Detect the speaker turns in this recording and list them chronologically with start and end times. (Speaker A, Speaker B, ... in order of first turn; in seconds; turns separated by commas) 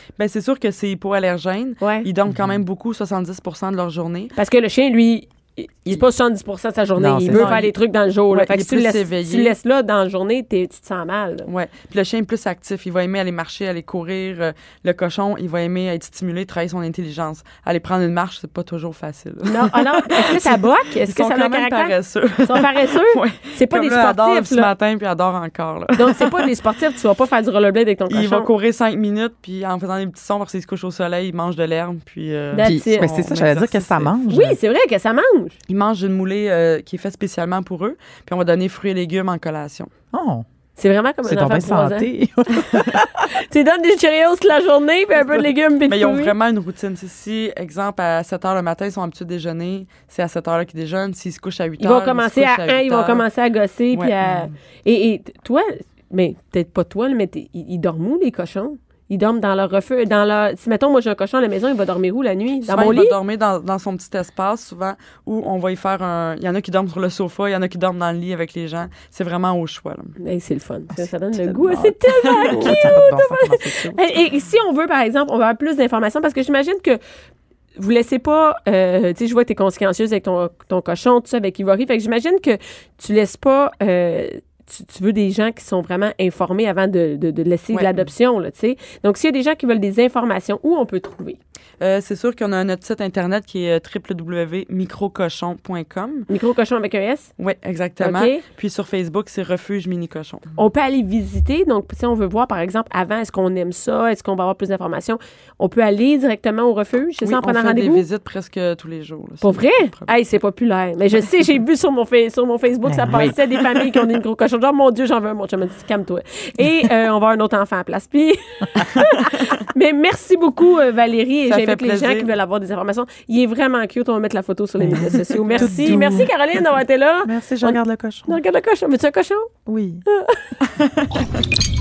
Speaker A: 0.2-4.3, Speaker B: 1.8-2.1, Speaker C: 2.3-2.6, Speaker B: 4.3-11.5, Speaker C: 7.0-7.6, Speaker A: 7.3-7.7, Speaker A: 8.3-9.6, Speaker A: 11.5-26.5, Speaker B: 19.4-24.7, Speaker B: 25.9-28.5, Speaker A: 28.1-34.1, Speaker B: 32.5-33.1, Speaker C: 32.6-34.6, Speaker B: 34.3-35.6, Speaker A: 35.7-39.9, Speaker C: 40.1-40.4, Speaker B: 40.8-46.3, Speaker C: 41.2-43.2, Speaker A: 45.8-53.2, Speaker B: 51.8-63.2, Speaker A: 53.9-54.2, Speaker A: 62.7-70.1, Speaker B: 70.2-77.0, Speaker C: 71.4-74.1, Speaker A: 72.2-72.8, Speaker B: 77.8-91.4, Speaker A: 87.7-88.1, Speaker A: 91.8-96.3, Speaker B: 96.3-97.3, Speaker A: 97.4-100.5, Speaker B: 98.0-98.4, Speaker B: 100.5-108.0, Speaker A: 107.2-110.1, Speaker B: 109.4-129.5, Speaker C: 112.9-113.4, Speaker A: 121.5-122.3, Speaker C: 124.8-126.3, Speaker C: 127.2-128.3, Speaker C: 129.7-130.0, Speaker B: 130.1-130.5, Speaker A: 130.7-131.1